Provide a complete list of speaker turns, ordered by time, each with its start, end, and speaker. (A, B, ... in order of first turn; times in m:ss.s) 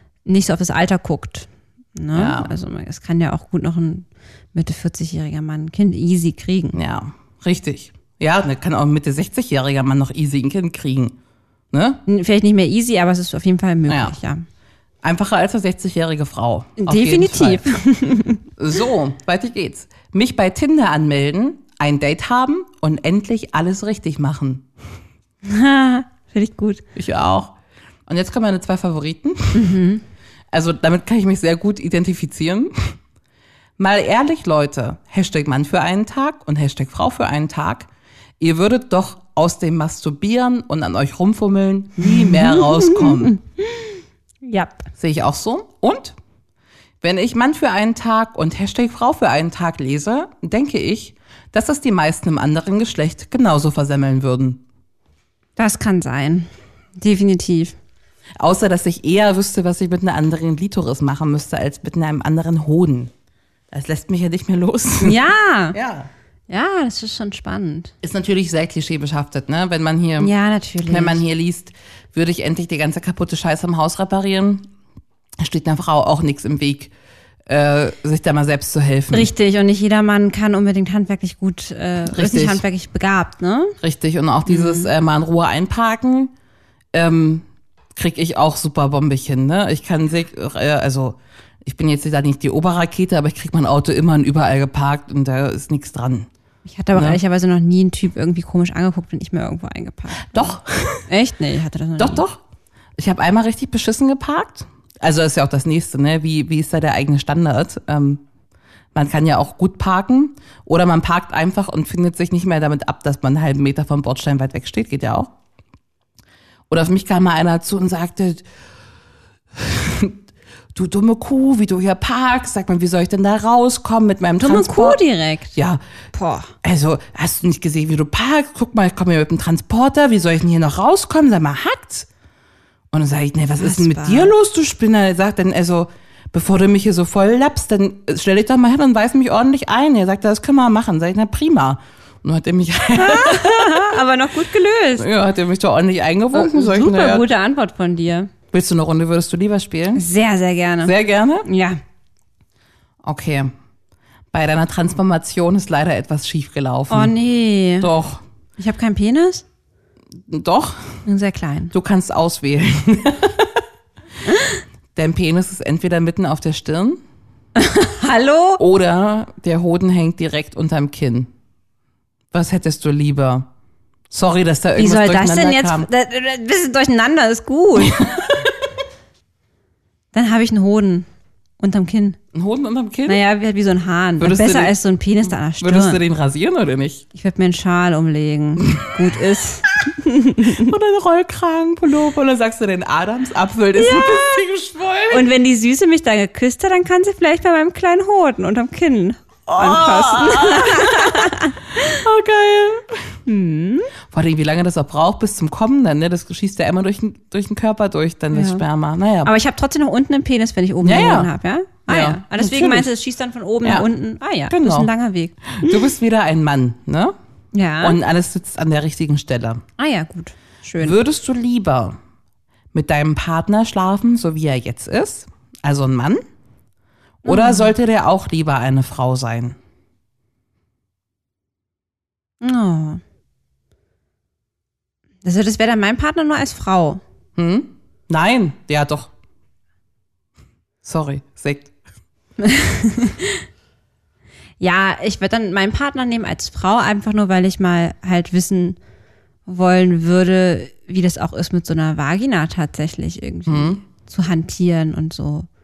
0:00.2-0:06.8 A
0:02.1-0:02.5 B
0:06.7-0:11.1 B
0:11.7-0:12.0 B
0:12.0-0:14.4 A
0:13.9-0:14.1 B
0:15.0-0:17.6 B
0:16.8-0:18.4 A
0:18.6-0:24.6 B
0:25.4-0:26.8 A
0:26.9-0:27.5 B
0:28.1-0:29.7 B
0:29.5-0:30.0 A
0:30.5-0:33.0 B
0:33.8-0:37.9 B
0:38.4-0:43.4 B
0:42.0-0:44.9 A
0:44.9-0:46.2 B
0:47.0-0:54.6 B
0:55.6-0:57.8 A
0:58.4-1:03.1 B
1:03.7-1:06.1 B
1:05.0-1:05.8 A
1:06.5-1:07.9 A
1:08.0-1:10.3 B
1:10.2-1:11.2 A
1:10.8-1:14.7 B
1:15.4-1:16.9 B
1:17.5-1:19.3 B
1:19.1-1:23.8 A
1:22.0-1:22.6 B
1:23.8-1:26.3 B
1:24.4-1:24.9 A
1:26.9-1:36.3 B
1:36.6-1:42.2 A
1:40.2-1:41.1 B
1:42.0-1:42.4 B
1:43.0-1:48.2 B
1:48.9-1:55.3 B
1:56.7-1:58.4 B
1:59.5-2:00.2 B
2:00.7-2:05.0 B
2:04.4-2:05.6 A
2:05.5-2:05.8 B
2:06.1-2:06.5 A
2:06.6-2:12.1 B
2:12.9-2:24.0 B
2:13.6-2:14.3 A
2:22.9-2:25.1 A
2:25.0-2:27.2 B
2:26.3-2:28.3 A
2:28.5-2:30.0 B
2:29.9-2:31.8 A
2:30.8-2:31.5 B
2:33.0-2:33.5 B
2:34.3-2:37.1 B
2:36.9-2:37.9 A
2:37.8-2:38.2 B
2:38.6-2:39.4 A
2:40.3-2:41.0 B
2:41.0-2:41.7 A
2:41.7-2:43.6 B
2:44.2-2:44.6 A
2:44.9-2:47.0 B
2:47.6-2:48.6 A
2:48.6-2:51.3 B
2:52.3-2:53.5 B
2:54.1-2:55.9 B
2:54.8-2:58.3 A
2:57.8-2:58.4 B
3:00.1-3:01.1 A
3:01.6-3:02.2 A
3:02.3-3:03.2 B
3:03.1-3:06.0 A
3:04.2-3:04.7 B
3:05.6-3:07.0 B
3:07.1-3:10.7 A
3:10.4-3:15.2 B
3:13.8-3:14.4 A
3:15.1-3:22.0 A
3:19.5-3:23.2 B
3:23.2-3:23.9 A
3:24.1-3:29.3 B
3:28.3-3:28.6 A
3:29.2-3:35.8 A
3:30.8-3:31.3 B
3:31.9-3:32.9 B
3:34.5-3:34.9 B
3:35.5-3:37.1 B
3:37.5-3:38.0 A
3:37.8-3:39.6 B
3:39.8-3:41.0 A
3:40.8-3:42.0 B
3:42.7-3:46.2 B
3:47.2-3:49.6 B
3:47.2-3:47.7 A
3:52.4-3:53.0 A
3:55.2-3:57.0 A
3:57.4-3:59.1 B
4:00.8-4:01.7 B
4:02.4-4:03.4 A
4:04.6-4:08.8 A
4:09.4-4:15.5 A
4:13.5-4:13.8 B